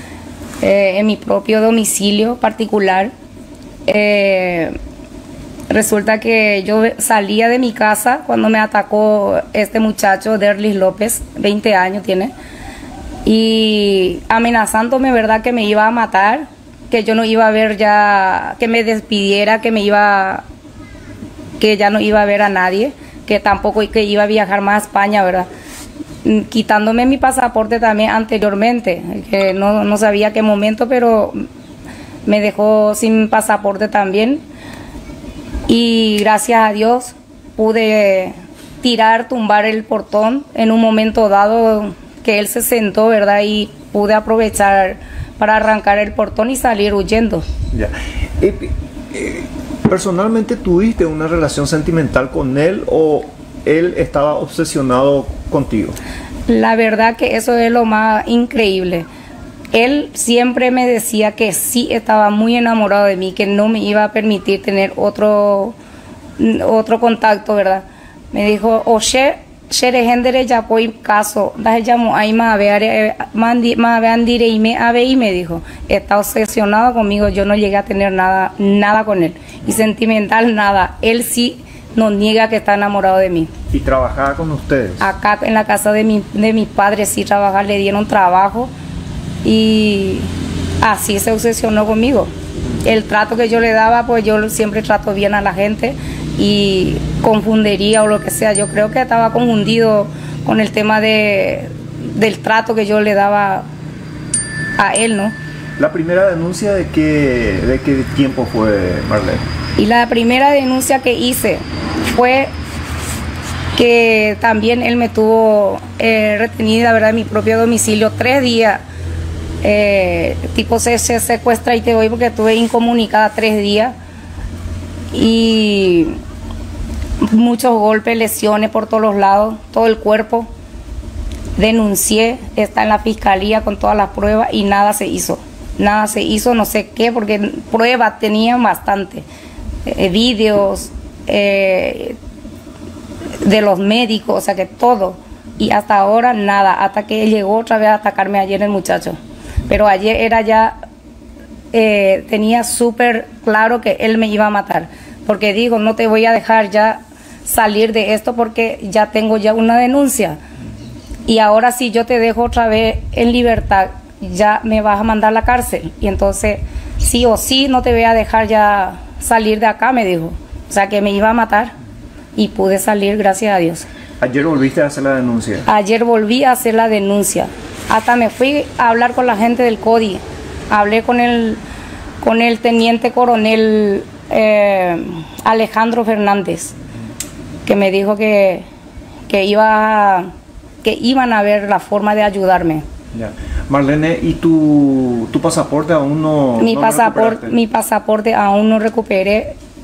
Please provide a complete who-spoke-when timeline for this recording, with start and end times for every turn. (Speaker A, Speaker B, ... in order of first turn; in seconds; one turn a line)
Speaker A: 0.6-3.1
Speaker A: 3.9-4.7
Speaker A: 5.7-12.3
Speaker A: 13.2-20.4
Speaker A: 21.6-25.5
Speaker A: 26.2-31.4
Speaker A: 32.3-34.4
Speaker A: 35.7-47.5
Speaker B: 47.7-56.0
Speaker A: 56.5-59.1
Speaker A: 59.7-65.8
Speaker A: 66.4-83.5
Speaker B: 83.7-85.0
Speaker A: 85.0-88.7
Speaker A: 89.4-90.3
Speaker A: 90.8-92.3
Speaker A: 92.8-103.7
Speaker A: 104.8-105.3
Speaker B: 105.8-109.5
Speaker A: 109.8-112.5
Speaker A: 113.8-118.8
Speaker A: 119.6-124.0
Speaker A: 125.1-126.2
Speaker A: 127.2-130.5
Speaker A: 131.6-139.3
Speaker A: 139.9-142.2
Speaker A: 143.4-150.8
Speaker A: 151.7-160.4
Speaker A: 161.3-171.7
Speaker A: 172.4-173.9
Speaker B: 174.2-175.7
Speaker A: 175.7-181.6
Speaker A: 182.2-186.8
Speaker A: 187.7-188.7
Speaker A: 189.3-190.3
Speaker A: 190.8-192.8
Speaker B: 193.1-197.5
Speaker A: 196.6-199.6